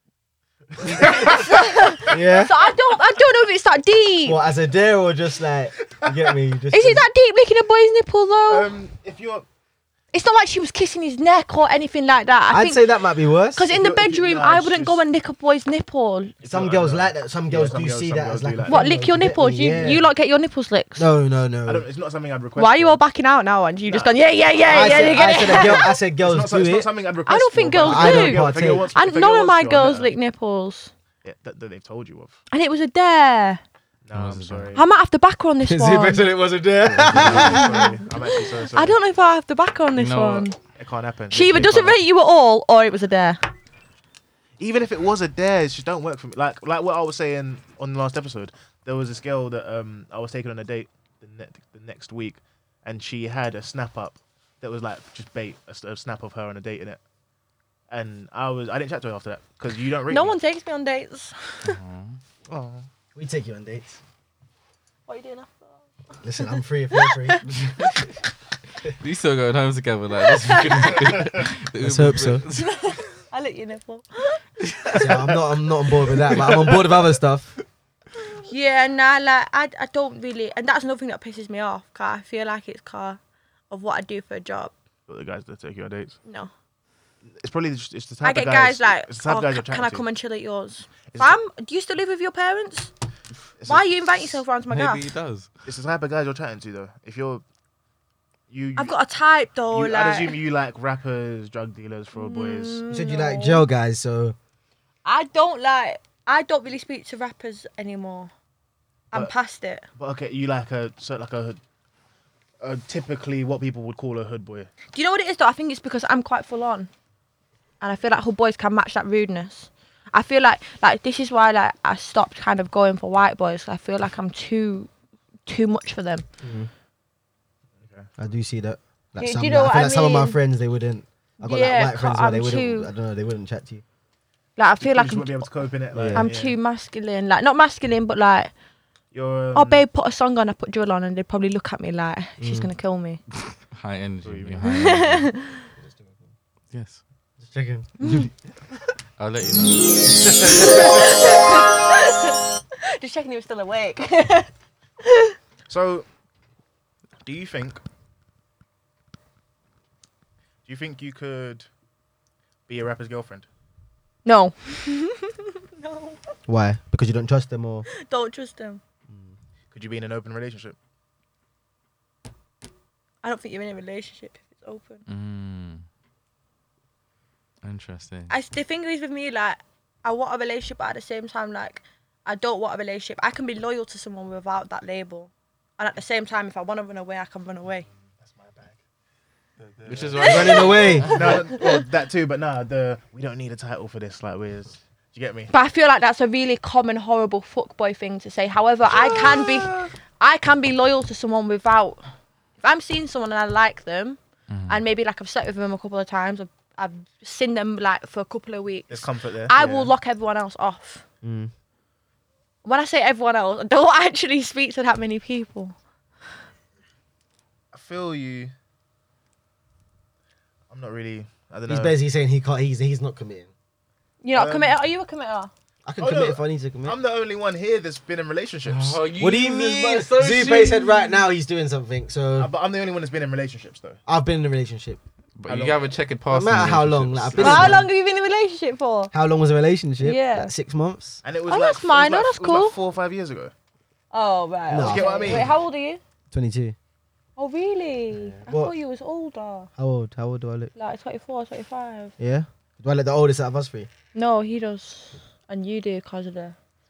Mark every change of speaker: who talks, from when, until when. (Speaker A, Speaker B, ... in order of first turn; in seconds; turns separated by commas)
Speaker A: 0.7-1.6, Speaker B: 0.9-4.4, Speaker C: 2.1-2.5, Speaker C: 4.2-7.0, Speaker A: 6.0-6.3, Speaker B: 6.7-8.7, Speaker A: 8.5-9.4, Speaker B: 10.1-12.9, Speaker C: 12.5-13.7, Speaker B: 13.5-16.3, Speaker A: 13.7-15.0, Speaker A: 16.4-18.9, Speaker C: 16.4-20.0, Speaker B: 18.7-21.1, Speaker C: 21.0-21.8, Speaker A: 21.6-23.0, Speaker B: 22.6-26.0, Speaker A: 23.9-30.1, Speaker C: 24.7-26.9, Speaker B: 27.3-30.9, Speaker C: 27.8-28.9, Speaker A: 31.2-32.4, Speaker B: 32.5-33.6, Speaker A: 34.0-34.8, Speaker D: 34.1-34.7, Speaker B: 34.7-36.3, Speaker C: 35.6-37.9, Speaker A: 37.0-39.0, Speaker D: 37.1-37.5, Speaker B: 37.2-40.6, Speaker D: 39.9-40.5, Speaker A: 40.8-42.0, Speaker B: 41.3-43.4, Speaker A: 44.6-57.0, Speaker A: 57.9-60.4, Speaker B: 60.1-61.8, Speaker D: 61.6-62.2, Speaker A: 62.5-62.9, Speaker C: 63.1-64.0, Speaker B: 65.1-68.0, Speaker C: 66.2-67.4, Speaker D: 67.6-68.0, Speaker D: 69.0-72.7, Speaker B: 70.2-71.2, Speaker C: 71.8-72.4, Speaker B: 72.5-75.0, Speaker D: 74.8-75.2, Speaker C: 74.9-77.5, Speaker D: 76.3-76.8, Speaker B: 78.2-84.7, Speaker A: 85.1-86.2, Speaker B: 86.2-86.5, Speaker A: 87.3-90.0, Speaker B: 88.2-92.9, Speaker A: 91.1-91.4, Speaker A: 93.6-93.8, Speaker B: 93.7-95.1, Speaker D: 94.7-95.5, Speaker A: 95.7-97.4, Speaker A: 98.5-98.9, Speaker B: 98.8-100.4, Speaker A: 99.7-102.8, Speaker B: 102.1-103.7, Speaker C: 102.9-104.3, Speaker B: 105.0-108.3, Speaker B: 109.1-109.8, Speaker A: 110.0-111.6, Speaker A: 112.6-114.7, Speaker B: 114.9-116.9, Speaker B: 117.8-124.9, Speaker B: 125.5-126.2, Speaker C: 126.4-126.7, Speaker A: 127.8-128.1, Speaker C: 128.2-133.8, Speaker B: 129.2-130.4, Speaker B: 131.4-132.9, Speaker B: 134.6-135.5, Speaker A: 134.8-136.6, Speaker C: 135.9-136.3, Speaker B: 136.1-138.5, Speaker A: 139.1-139.8, Speaker B: 139.5-143.2, Speaker C: 142.4-142.7, Speaker D: 143.7-145.3, Speaker A: 144.2-144.7, Speaker B: 144.7-145.6, Speaker C: 145.8-146.3, Speaker D: 146.7-147.0, Speaker C: 147.4-148.3, Speaker B: 148.0-148.3, Speaker D: 149.2-150.6, Speaker C: 150.2-151.0, Speaker B: 150.4-154.5, Speaker B: 155.0-155.3, Speaker A: 155.7-156.1, Speaker A: 157.2-157.8, Speaker A: 160.6-161.7, Speaker A: 162.7-163.5, Speaker B: 164.2-166.3, Speaker C: 166.5-167.9, Speaker B: 167.9-168.8, Speaker C: 169.1-169.3, Speaker A: 169.7-170.8, Speaker B: 173.2-175.0, Speaker D: 175.1-175.8, Speaker D: 177.6-178.3, Speaker B: 178.3-187.9, Speaker A: 188.2-188.8, Speaker A: 189.6-195.5, Speaker D: 189.8-191.4, Speaker B: 190.2-191.8, Speaker C: 190.2-191.2, Speaker B: 195.5-202.0, Speaker A: 199.0-199.8, Speaker B: 202.6-211.0, Speaker D: 204.5-204.8, Speaker A: 208.9-209.9, Speaker C: 211.2-211.5, Speaker B: 212.6-215.8, Speaker A: 217.7-218.5, Speaker A: 220.7-221.9, Speaker C: 221.7-223.5, Speaker B: 224.2-225.5, Speaker A: 224.3-224.8, Speaker C: 225.8-226.9, Speaker A: 226.0-229.0, Speaker D: 228.7-231.0, Speaker C: 229.2-232.5, Speaker A: 232.4-234.0, Speaker C: 234.1-235.0, Speaker D: 235.4-237.8, Speaker A: 235.5-235.9, Speaker C: 236.3-237.9, Speaker B: 237.4-239.1, Speaker A: 237.4-237.7, Speaker C: 239.1-241.2, Speaker B: 240.0-240.5, Speaker A: 241.2-243.5, Speaker B: 241.5-242.8, Speaker B: 244.1-246.0, Speaker C: 244.7-245.6, Speaker A: 244.8-245.5, Speaker C: 246.3-246.7, Speaker B: 247.4-249.7, Speaker C: 248.1-248.7, Speaker C: 249.8-250.7, Speaker B: 250.7-252.1, Speaker C: 252.2-253.9, Speaker B: 254.1-256.5